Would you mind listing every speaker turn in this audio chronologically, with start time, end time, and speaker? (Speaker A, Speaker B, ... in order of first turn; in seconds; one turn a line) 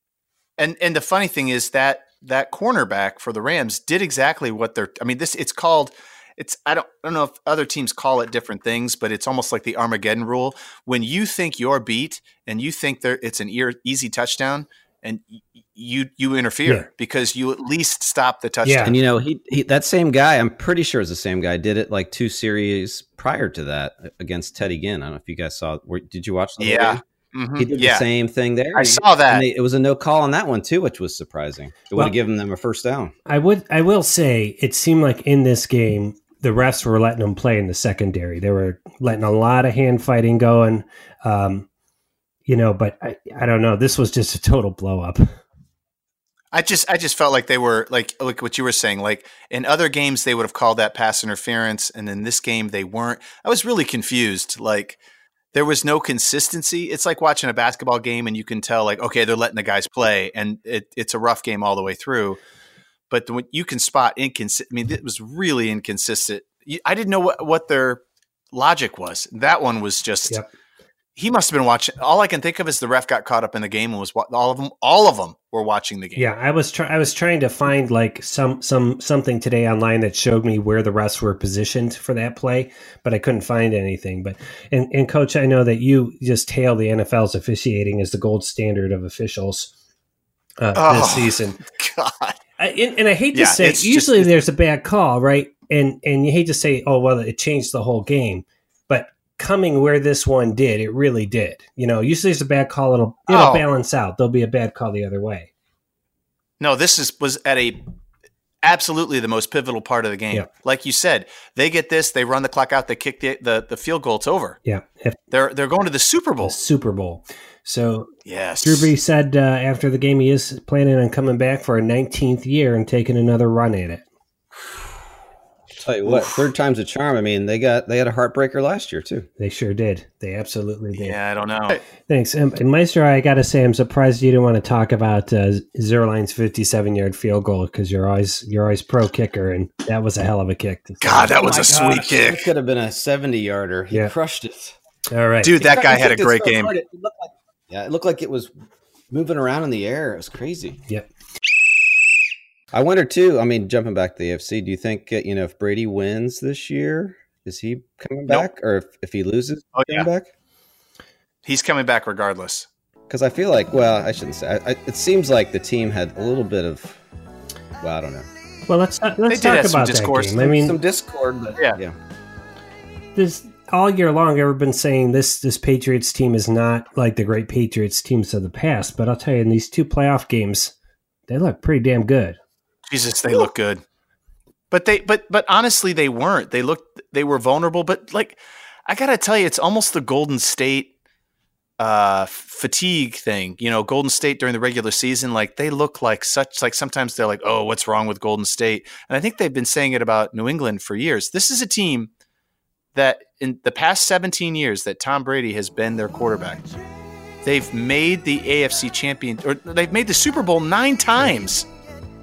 Speaker A: 0.6-19.0
Speaker B: 18.6-18.9
Speaker C: 18.9-27.0
Speaker A: 26.6-28.1
Speaker C: 27.6-33.1
Speaker A: 28.7-29.4
Speaker B: 33.3-41.7
Speaker B: 42.5-45.3
Speaker A: 46.5-55.0
Speaker A: 55.5-62.4
Speaker A: 63.1-68.0
Speaker A: 68.5-70.4
Speaker A: 71.2-76.3
Speaker B: 76.2-89.7
Speaker B: 90.6-91.6
Speaker A: 90.8-92.4
Speaker B: 92.6-105.5
Speaker A: 93.3-94.3
Speaker A: 103.3-103.7
Speaker A: 106.6-107.8
Speaker A: 108.6-114.6
Speaker B: 114.7-115.2
Speaker A: 115.3-116.5
Speaker B: 116.4-118.1
Speaker A: 118.3-118.9
Speaker B: 118.6-124.0
Speaker C: 125.8-129.3
Speaker B: 129.4-131.2
Speaker A: 130.9-131.8
Speaker B: 132.1-141.4
Speaker A: 141.0-142.5
Speaker C: 141.4-144.8
Speaker B: 145.1-145.6
Speaker A: 145.4-146.7
Speaker C: 145.6-148.5
Speaker C: 149.1-150.8
Speaker C: 152.7-160.3
Speaker A: 159.8-160.1
Speaker A: 161.4-162.7
Speaker C: 163.1-167.0
Speaker C: 167.8-168.3
Speaker B: 168.7-170.8
Speaker A: 169.3-170.5
Speaker C: 170.4-172.0
Speaker B: 173.2-180.7
Speaker B: 181.3-182.4
Speaker A: 182.9-183.8
Speaker A: 184.7-190.9
Speaker A: 191.8-202.1
Speaker A: 202.9-206.7
Speaker A: 207.4-211.7